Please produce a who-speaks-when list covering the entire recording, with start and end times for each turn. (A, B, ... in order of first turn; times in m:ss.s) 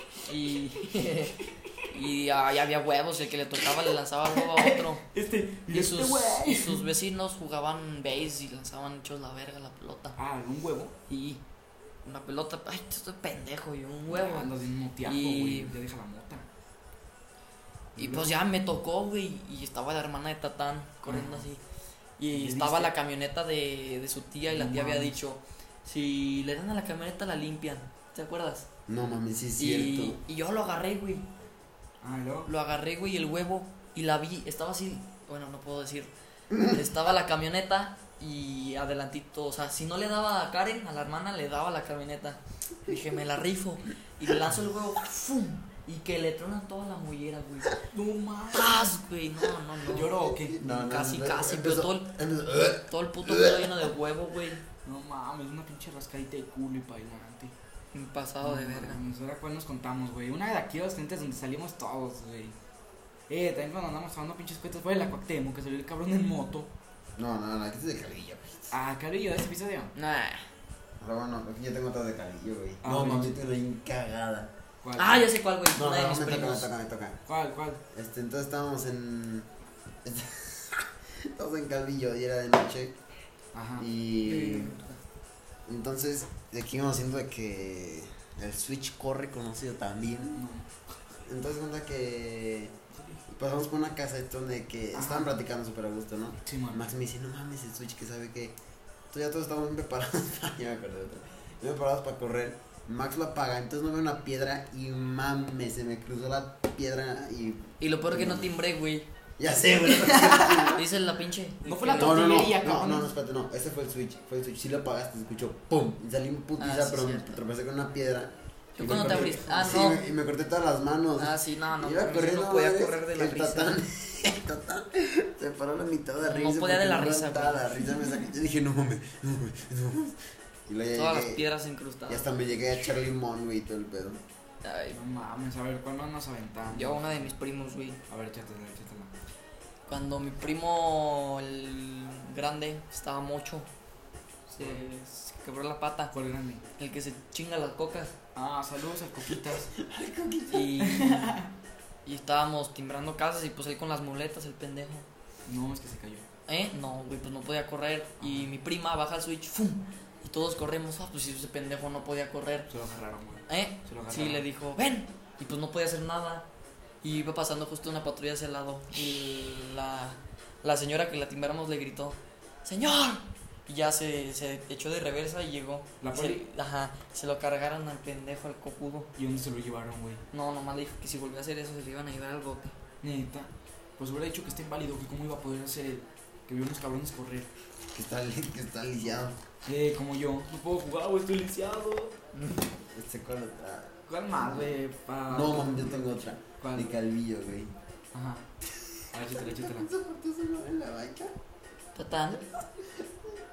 0:00.2-0:05.0 A
0:04.3-0:06.9 B
0:05.7-0:10.2 A
0:10.2-0:11.0 B
0:11.1-0:11.4 A
0:12.0-0:14.5 A
0:14.1-0:16.5 B
0:15.0-0:15.7 A
0:18.0-0:18.3 C
0:18.0-0:21.6 A
0:21.1-0:21.5 B
0:22.2-0:28.7 A
0:22.3-0:22.9 B
0:24.5-0:25.2 B
0:28.9-0:30.2 C
0:29.6-0:31.3 A
0:32.0-0:32.5 B
0:32.5-0:47.8 A
0:47.9-0:48.9 B
0:48.5-0:52.2 A
0:49.9-0:50.6 B
0:50.3-0:53.9 C
0:52.9-0:54.6 A
0:54.8-0:57.5 B
0:57.9-0:59.0 A
0:58.4-1:02.6 B
1:03.3-1:06.7 B
1:07.2-1:08.7 C
1:08.7-1:09.9 B
1:10.0-1:10.5 A
1:11.0-1:14.5 C
1:12.8-1:13.4 B
1:14.8-1:15.3 B
1:15.0-1:16.7 A
1:15.7-1:17.2 C
1:17.3-1:17.8 B
1:17.9-1:19.5 C
1:20.0-1:23.0 C
1:23.5-1:23.9 B
1:23.8-1:24.8 C
1:24.2-1:25.0 A
1:25.7-1:30.4 C
1:30.3-1:30.7 B
1:31.2-1:32.8 C
1:32.9-1:33.2 B
1:33.3-1:38.6 C
1:34.9-1:35.3 B
1:36.5-1:36.8 B
1:39.1-1:48.5 C
1:47.8-1:49.1 A
1:49.4-1:50.9 C
1:50.1-1:52.4 A
1:51.6-1:53.1 B
1:52.0-2:11.4 C
1:56.6-1:57.4 A
1:58.8-2:00.0 A
1:58.8-1:59.5 B
2:01.2-2:03.8 A
2:06.2-2:07.9 A
2:10.9-2:12.5 A
2:12.1-2:14.2 C
2:14.6-2:15.0 A
2:14.9-2:17.3 B
2:16.7-2:18.0 A
2:18.1-2:19.1 B
2:19.9-2:23.7 A
2:24.5-2:26.1 A
2:24.6-2:24.8 B
2:26.1-2:26.6 B
2:26.8-2:28.2 A
2:28.4-2:29.7 B
2:29.3-2:30.8 C
2:30.5-2:31.4 A
2:30.8-2:31.5 B
2:32.1-2:35.1 A
2:35.5-2:36.3 B
2:36.5-2:42.7 A
2:38.2-2:38.5 B
2:42.7-2:44.4 B
2:43.5-2:46.5 A
2:47.0-2:59.1 A
2:56.0-2:56.4 B
2:59.2-3:00.2 B
3:00.3-3:02.8 A
3:03.0-3:07.5 B
3:07.9-3:09.4 C
3:09.6-3:12.2 B
3:12.4-3:12.6 A
3:12.8-3:14.8 C
3:14.1-3:17.0 B
3:15.3-3:17.8 C
3:18.1-3:18.4 B
3:18.8-3:21.4 C
3:19.1-3:19.9 B
3:22.0-3:22.4 A
3:22.6-3:23.1 C